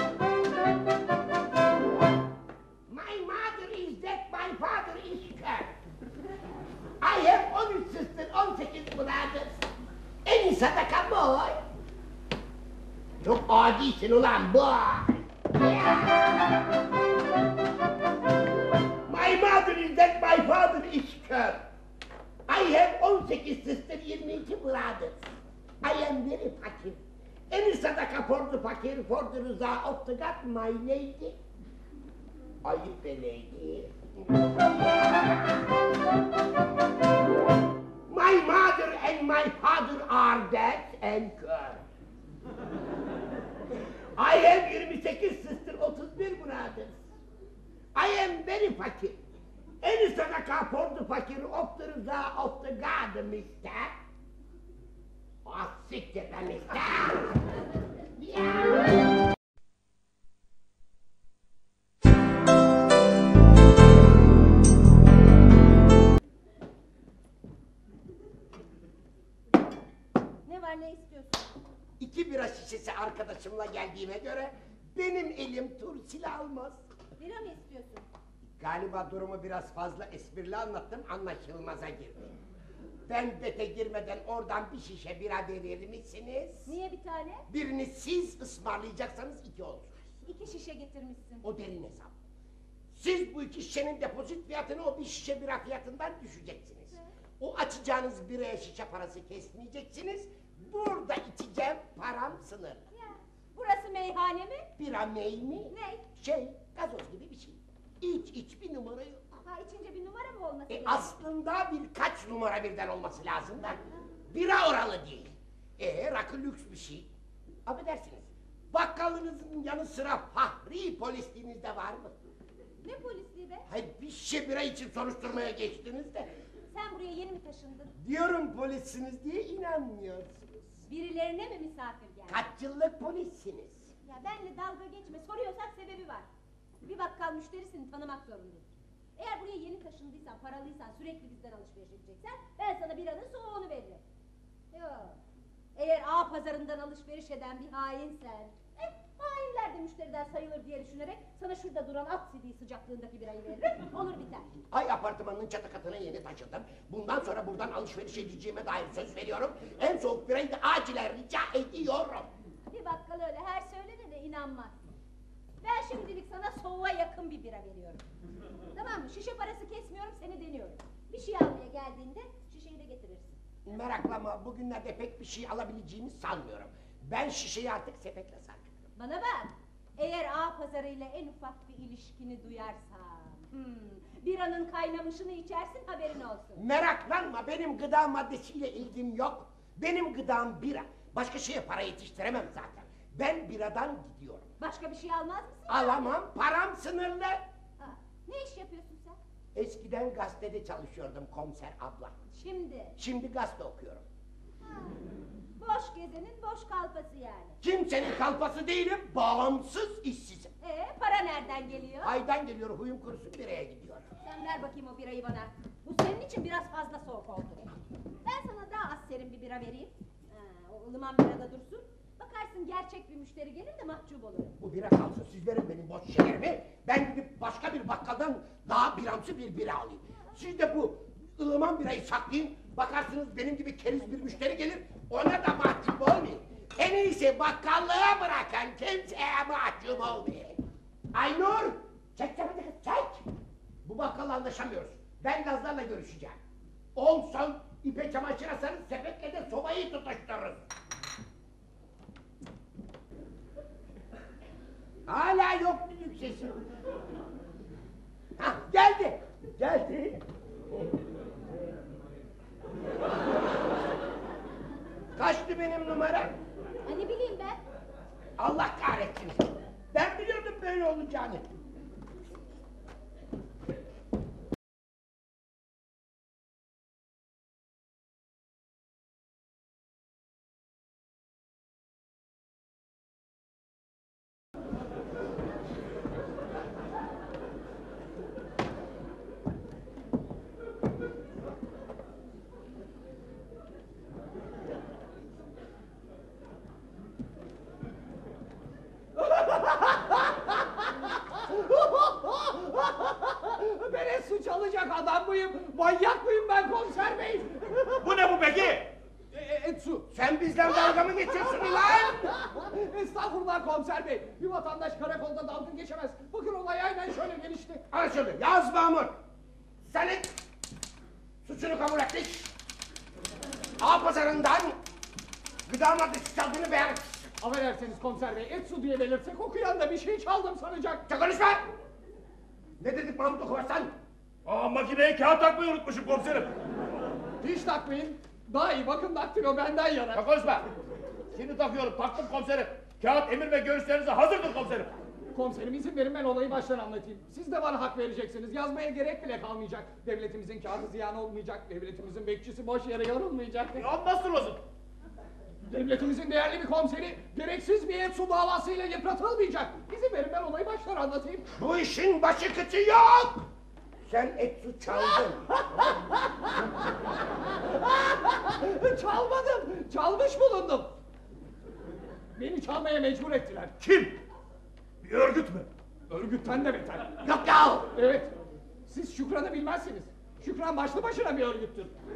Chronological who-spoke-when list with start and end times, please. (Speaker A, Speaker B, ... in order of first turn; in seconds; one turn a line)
Speaker A: 2.9-5.8
Speaker A: 7.0-9.6
Speaker A: 10.2-11.6
Speaker A: 13.2-16.5
Speaker A: 19.1-21.7
Speaker A: 22.5-31.4
Speaker A: 32.6-33.9
Speaker A: 38.1-41.8
Speaker A: 44.2-47.0
Speaker A: 47.9-49.2
Speaker A: 49.8-53.9
Speaker A: 55.5-57.6
Speaker A: 58.1-58.9
Speaker B: 70.5-71.5
Speaker A: 72.0-76.9
Speaker B: 77.2-78.1
Speaker A: 78.6-82.3
Speaker A: 83.1-86.8
Speaker B: 86.7-87.5
Speaker A: 87.5-90.2
Speaker B: 90.2-91.5
Speaker A: 91.4-92.2
Speaker A: 92.9-102.9
Speaker B: 102.9-104.7
Speaker A: 104.8-109.3
Speaker B: 105.7-106.1
Speaker B: 109.4-111.2
Speaker A: 110.7-113.8
Speaker A: 114.3-117.1
Speaker A: 117.7-122.2
Speaker B: 122.8-123.7
Speaker A: 123.7-126.3
Speaker B: 126.7-127.9
Speaker A: 128.0-130.8
Speaker B: 130.9-132.5
Speaker A: 132.3-133.9
Speaker B: 134.0-136.3
Speaker B: 136.8-138.7
Speaker B: 139.2-144.0
Speaker B: 144.7-145.2
Speaker B: 145.8-154.5
Speaker A: 154.7-162.3
Speaker B: 162.7-164.9
Speaker B: 165.6-168.0
Speaker B: 168.8-173.4
Speaker A: 173.7-178.9
Speaker B: 179.0-186.6
Speaker A: 186.6-194.5
Speaker B: 194.6-196.0
Speaker A: 195.7-197.4
Speaker B: 197.8-199.2
Speaker A: 199.6-202.1
Speaker B: 202.3-202.9
Speaker A: 203.0-204.0
Speaker B: 204.7-205.0
Speaker B: 205.6-207.6
Speaker A: 207.6-210.5
Speaker B: 210.6-212.1
Speaker A: 212.0-214.1
Speaker B: 214.2-217.7
Speaker B: 218.2-224.6
Speaker A: 224.6-240.6
Speaker A: 241.1-243.2
Speaker A: 243.8-246.4
Speaker A: 246.9-250.7
Speaker A: 255.1-256.6
Speaker A: 258.4-260.2
Speaker A: 265.2-266.4
Speaker B: 266.9-267.6
Speaker A: 268.4-271.5
Speaker C: 299.3-308.0
Speaker D: 308.0-308.9
Speaker C: 309.3-310.1
Speaker A: 310.1-312.2
Speaker C: 311.6-317.8
Speaker A: 317.9-319.1
Speaker A: 319.8-320.3
Speaker A: 321.4-322.5
Speaker A: 323.8-324.8
Speaker A: 325.7-327.3
Speaker C: 327.4-331.0
Speaker A: 331.1-331.6
Speaker A: 332.8-333.9
Speaker D: 334.4-336.6
Speaker C: 337.4-340.2
Speaker D: 340.1-340.7
Speaker D: 341.3-345.0
Speaker C: 345.3-353.9
Speaker D: 353.8-354.6
Speaker C: 355.7-361.5
Speaker A: 361.6-363.5
Speaker A: 364.0-365.5
Speaker C: 367.3-370.9
Speaker C: 372.3-374.1
Speaker C: 375.1-377.2
Speaker A: 377.2-377.9
Speaker C: 377.9-378.3
Speaker C: 378.9-381.9